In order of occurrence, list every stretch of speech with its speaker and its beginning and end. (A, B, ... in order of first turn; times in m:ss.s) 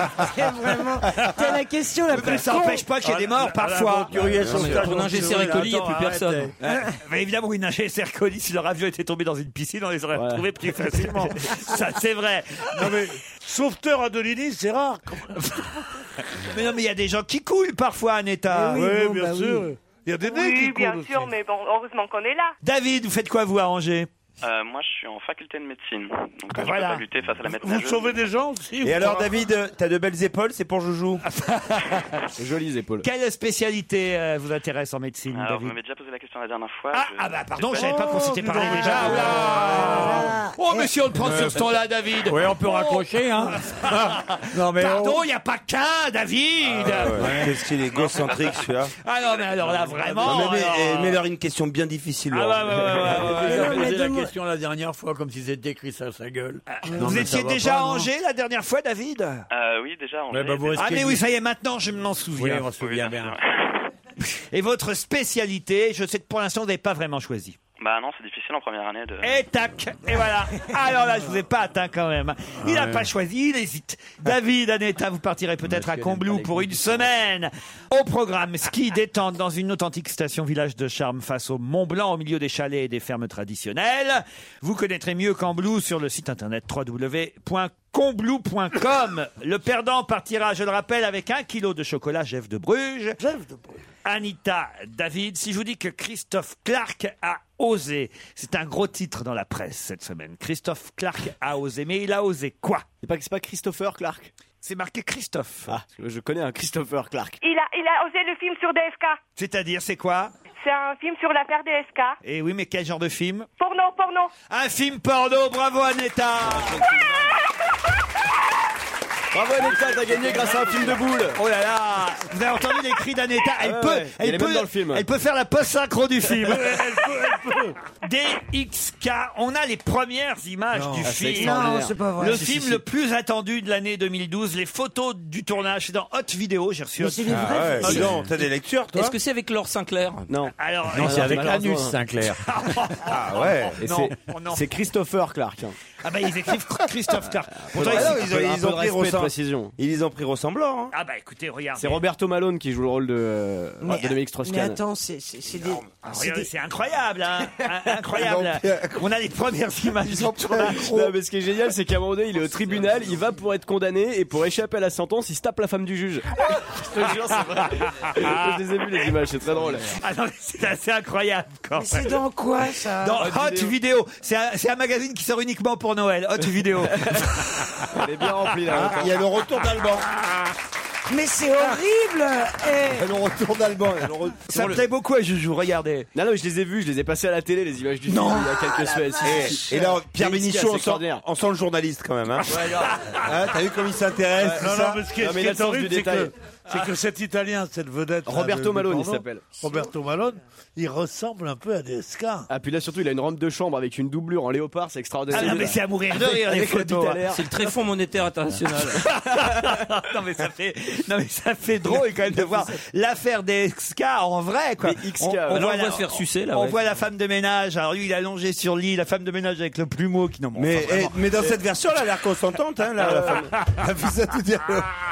0:00.2-0:02.9 A
0:02.1-0:04.3 B
0:03.0-0:05.7 C
0:04.1-0:06.5 D
0:04.4-0:04.7 E
0:04.5-0:06.5 F
0:06.6-0:13.0 B
0:10.1-0:11.2 G
0:12.7-0:15.6 C
0:16.4-0:19.0 B
0:18.5-0:19.7 A
0:18.7-0:21.3 C
0:20.2-0:22.6 H
0:22.6-0:24.1 B
0:24.4-0:28.2 I
0:26.5-0:27.0 B
0:27.5-0:29.3 C
0:28.8-0:31.2 E
0:31.2-0:32.3 B
0:32.4-0:33.1 G
0:33.0-0:35.7 B
0:35.3-0:38.0 I
0:36.9-0:51.2 B
0:37.7-0:40.2 C
0:39.4-0:40.9 A
0:41.2-0:41.7 D
0:42.2-0:45.2 D
0:46.6-0:48.9 E
0:47.1-0:47.5 D
0:49.6-0:50.2 D
0:50.2-0:53.4 E
0:52.3-0:53.9 B
0:53.0-0:58.1 D
0:53.2-0:54.3 A
0:56.7-0:59.4 B
0:59.5-1:01.1 I
1:00.3-1:01.2 D
1:00.8-1:02.7 B
1:02.3-1:03.4 D
1:02.7-1:03.8 I
1:04.2-1:07.6 B
1:07.8-1:09.4 I
1:09.2-1:33.2 B
1:12.6-1:13.1 D
1:15.6-1:17.1 D
1:33.2-1:33.8 C
1:34.0-1:42.9 B
1:43.0-1:44.3 G
1:44.6-1:45.8 B
1:45.7-1:47.4 G
1:47.4-1:49.2 H
1:49.4-1:50.3 B
1:50.6-1:52.2 H
1:52.2-1:53.5 B
1:53.6-1:54.3 H
1:54.5-1:56.9 B
1:59.3-2:01.4 G
2:01.3-2:07.1 B
2:03.6-2:05.0 G
2:06.4-2:07.8 C
2:08.0-2:18.0 B
2:10.7-2:11.1 C
2:11.0-2:12.8 G
2:11.4-2:12.7 A
2:17.0-2:18.2 A
2:17.3-2:19.1 E
2:18.9-2:20.3 F
2:20.3-2:22.0 G
2:20.6-2:21.5 B
2:20.9-2:22.4 D
2:22.4-2:24.7 B
2:23.0-2:23.8 E
2:23.8-2:25.8 G
2:26.0-2:28.3 B
2:27.7-2:29.7 G
2:27.7-2:30.9 E
2:30.9-2:32.0 B
2:31.8-2:34.8 G
2:33.8-2:36.5 A
2:36.0-2:40.8 B
2:38.1-2:39.1 E
2:40.1-2:49.9 G
2:40.4-2:40.9 E
2:40.8-2:41.1 A
2:48.1-2:48.6 B
2:49.9-2:52.2 B
2:51.8-2:53.2 A
2:53.0-2:57.9 B
2:53.2-2:53.8 G
2:57.9-2:59.2 G
2:58.7-3:00.1 E
3:01.1-3:03.1 A
3:02.9-3:04.6 E
3:04.5-3:06.1 B
3:06.1-3:11.2 G
3:08.1-3:09.5 A
3:09.2-3:12.6 E
3:12.5-3:12.9 G
3:12.6-3:13.3 B
3:13.2-3:15.0 E
3:14.4-3:16.3 G
3:14.6-3:22.5 C
3:18.2-3:19.5 G
3:22.5-3:27.5 G
3:25.3-3:27.2 B
3:27.3-3:29.0 F
3:29.0-3:41.5 B
3:34.8-3:35.9 G
3:35.5-3:36.8 F
3:40.5-3:44.9 E
3:43.0-3:43.5 G